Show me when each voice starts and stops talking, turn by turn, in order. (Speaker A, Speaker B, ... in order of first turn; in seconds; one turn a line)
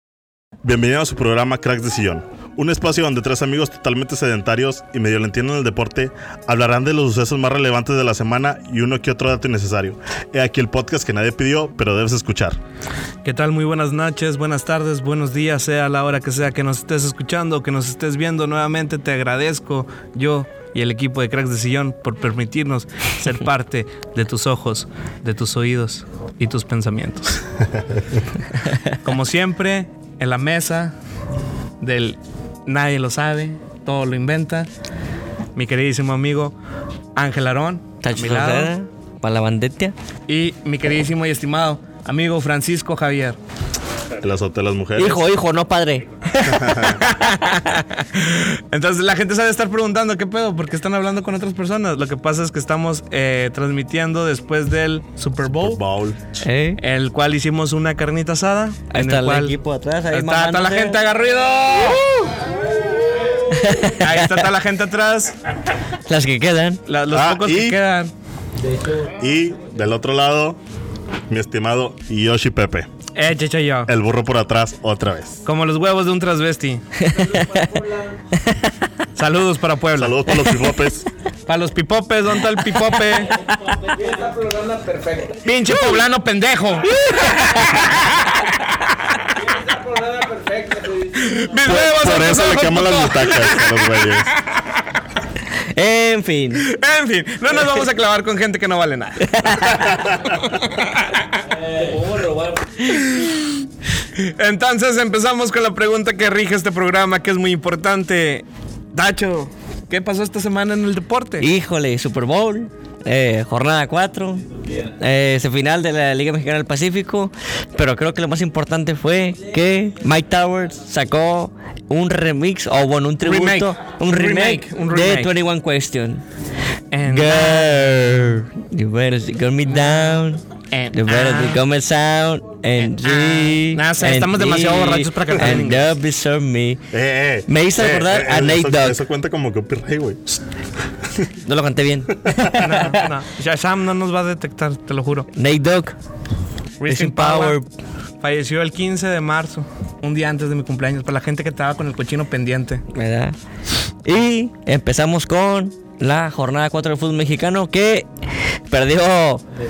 Speaker A: 0.6-12.6
Speaker B: 13.2-27.4
Speaker B: 29.0-30.9
Speaker B: 31.8-34.7
Speaker B: 35.5-36.5
Speaker B: 37.2-38.7
Speaker C: 38.0-40.0
Speaker B: 40.3-43.4
Speaker A: 44.2-45.3
Speaker C: 45.0-47.5
Speaker A: 46.5-47.0
Speaker B: 47.0-55.8
Speaker A: 55.5-56.2
Speaker C: 56.4-56.8
Speaker B: 56.8-59.6
Speaker C: 58.9-61.0
Speaker B: 60.1-62.1
Speaker C: 62.0-62.3
Speaker C: 63.5-64.5
Speaker B: 63.8-65.3
Speaker C: 66.1-66.8
Speaker B: 66.9-68.1
Speaker A: 67.1-67.8
Speaker A: 69.1-70.6
Speaker A: 71.3-72.9
Speaker B: 73.2-73.9
Speaker A: 73.9-75.5
Speaker B: 75.5-76.8
Speaker C: 77.0-78.8
Speaker B: 79.2-80.3
Speaker A: 80.0-81.1
Speaker B: 81.5-83.3
Speaker C: 83.4-83.8
Speaker B: 85.2-94.7
Speaker C: 86.9-88.0
Speaker A: 91.7-94.3
Speaker C: 95.7-96.7
Speaker B: 96.6-103.5
Speaker C: 99.2-100.0
Speaker A: 100.0-100.3
Speaker B: 104.2-111.5
Speaker C: 111.4-114.4
Speaker C: 115.0-126.2
Speaker B: 123.2-125.3
Speaker B: 126.9-128.1
Speaker C: 127.1-136.8
Speaker B: 129.7-131.6
Speaker B: 132.8-135.9
Speaker A: 136.9-140.4
Speaker C: 137.5-139.0
Speaker C: 141.4-143.1
Speaker A: 142.2-142.8
Speaker B: 142.6-145.3
Speaker C: 145.3-146.0
Speaker B: 146.8-147.6
Speaker C: 146.9-147.7
Speaker B: 148.2-152.8
Speaker C: 152.9-153.4
Speaker C: 154.0-158.1
Speaker C: 158.7-159.4